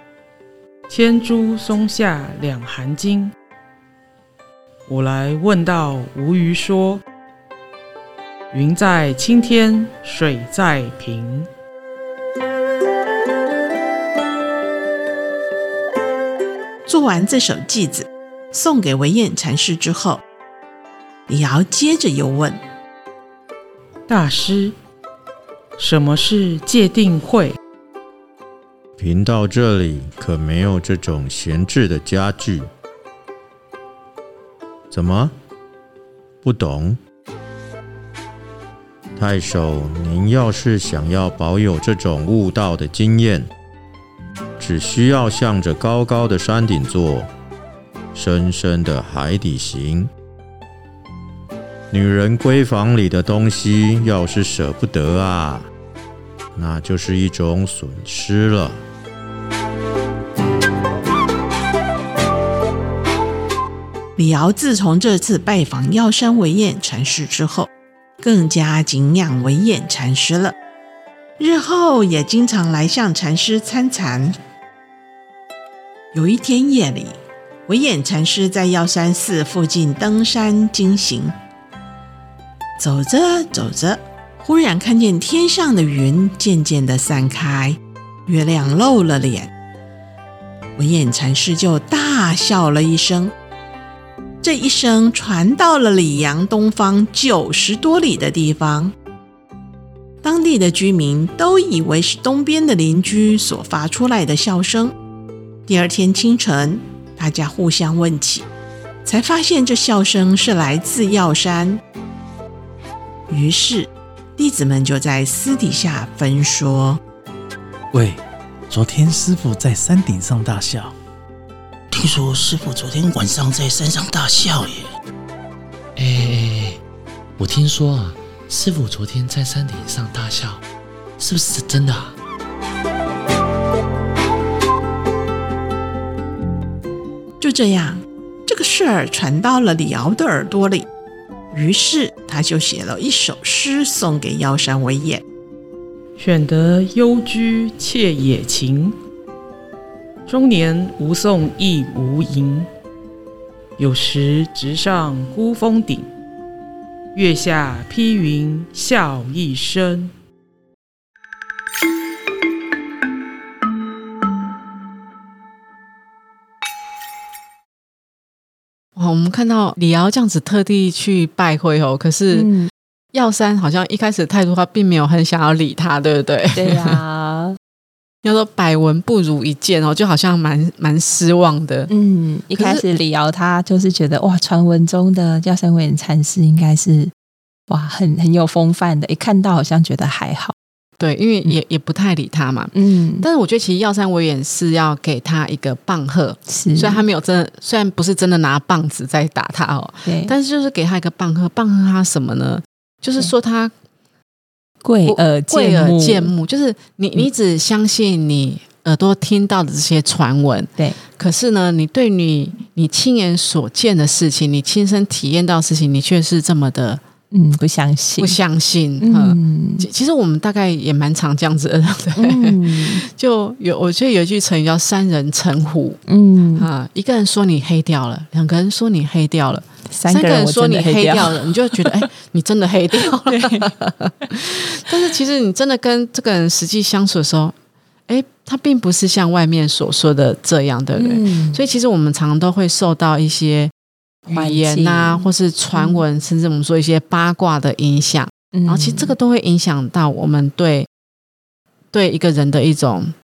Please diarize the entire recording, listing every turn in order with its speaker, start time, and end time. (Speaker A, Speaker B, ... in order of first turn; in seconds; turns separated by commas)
Speaker A: 0.9-3.3, Speaker A: 4.9-7.0, Speaker A: 8.5-11.5, Speaker B: 16.9-20.2, Speaker B: 21.3-22.6, Speaker A: 24.1-24.8, Speaker A: 25.8-27.6, Speaker C: 29.0-32.7, Speaker C: 34.9-35.3, Speaker C: 36.4-37.0, Speaker C: 39.2-43.5, Speaker C: 44.6-47.3, Speaker C: 48.1-50.1, Speaker C: 51.9-55.7, Speaker C: 56.5-58.8, Speaker B: 64.2-67.7, Speaker B: 68.2-70.6, Speaker B: 71.4-74.4, Speaker B: 76.1-77.2, Speaker B: 77.7-81.3, Speaker B: 82.8-89.5, Speaker B: 90.8-93.3, Speaker B: 94.4-98.9, Speaker B: 100.2-104.9, Speaker B: 105.7-108.5, Speaker B: 109.0-111.8, Speaker B: 113.3-117.0, Speaker D: 117.9-120.9, Speaker E: 121.9-124.9, Speaker F: 126.0-126.8, Speaker F: 127.4-130.6, Speaker F: 131.2-132.2, Speaker B: 137.4-140.9, Speaker B: 141.5-145.2, Speaker A: 146.2-149.0, Speaker A: 150.3-152.7, Speaker A: 153.8-156.1, Speaker A: 157.1-160.1, Speaker G: 169.0-172.5, Speaker H: 172.3-172.7, Speaker G: 173.1-177.0, Speaker H: 176.6-177.6, Speaker G: 178.2-181.9, Speaker H: 181.9-187.1, Speaker G: 182.6-182.8, Speaker H: 187.7-190.6, Speaker G: 191.0-203.7, Speaker H: 192.7-193.3, Speaker H: 196.5-197.0, Speaker H: 200.1-200.3, Speaker H: 204.8-206.3, Speaker G: 205.1-217.0, Speaker H: 217.3-218.4, Speaker G: 218.2-226.0, Speaker H: 219.0-219.9, Speaker H: 222.2-223.1, Speaker H: 226.1-226.7, Speaker G: 226.6-237.5, Speaker H: 229.9-232.0, Speaker H: 233.3-233.7, Speaker G: 238.1-243.7, Speaker H: 241.0-241.6, Speaker G: 244.3-250.9, Speaker H: 244.3-246.0, Speaker H: 248.5-249.1, Speaker G: 251.9-253.1